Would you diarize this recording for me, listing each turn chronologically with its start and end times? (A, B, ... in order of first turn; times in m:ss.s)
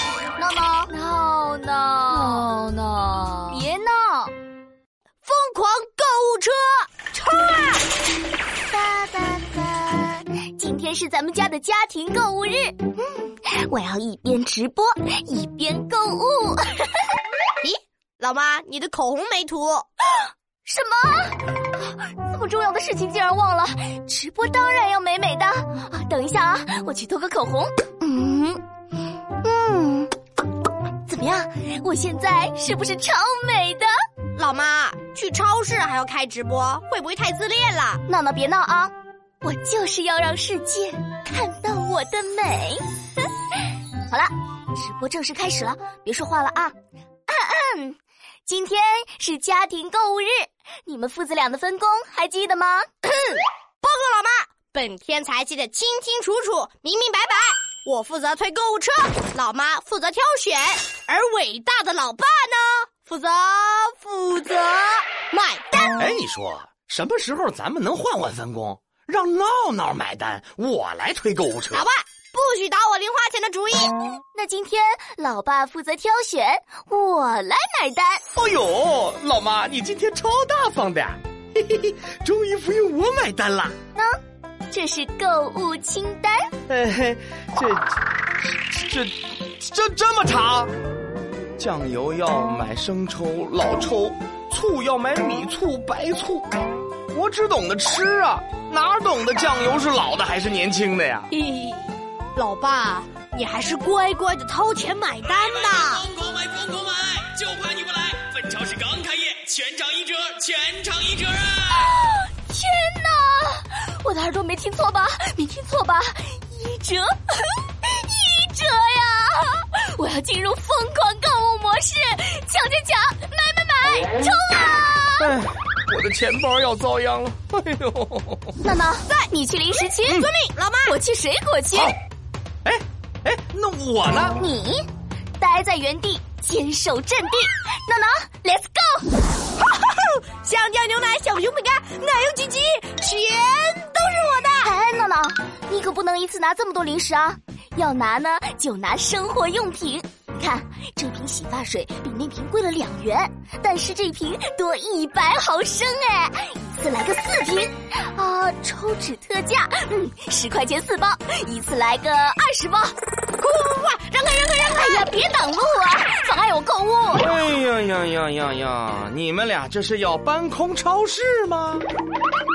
0:00.2-0:02.5 A
0:02.3-0:03.3 B
0:03.4-0:04.3 A
0:05.2-0:07.8 B
0:08.7-0:17.1 A
0:17.6-0:19.9 B
0:20.6-0:28.6 A
0:29.4-0:30.1 A
0:31.0-0:33.9 A
0:34.4-0:38.0 B
0:38.1-0:42.8 A
0:44.1-0:46.7 A
0:47.3-0:52.9 A
0:53.1-1:06.0 B
1:06.0-1:11.9 C
1:11.7-1:14.0 B
1:14.3-1:18.2 A
1:18.4-1:23.7 C
1:24.7-1:26.5 A
1:26.7-1:30.7 C
1:31.6-1:36.5 C
1:37.1-1:41.3 C
1:41.3-1:46.1 B
1:46.2-1:46.9 C
1:46.3-1:51.5 D
1:47.9-1:51.4 C
1:51.7-2:05.3 A
2:05.2-2:08.6 C
2:08.6-2:10.3 A
2:10.1-2:10.9 B
2:10.9-2:12.0 A
2:12.6-2:14.4 C
2:14.4-2:19.2 A
2:19.6-2:24.7 B
2:24.6-2:42.9 A
2:43.4-2:45.1 B
2:44.7-2:47.3 A
2:47.1-2:51.9 C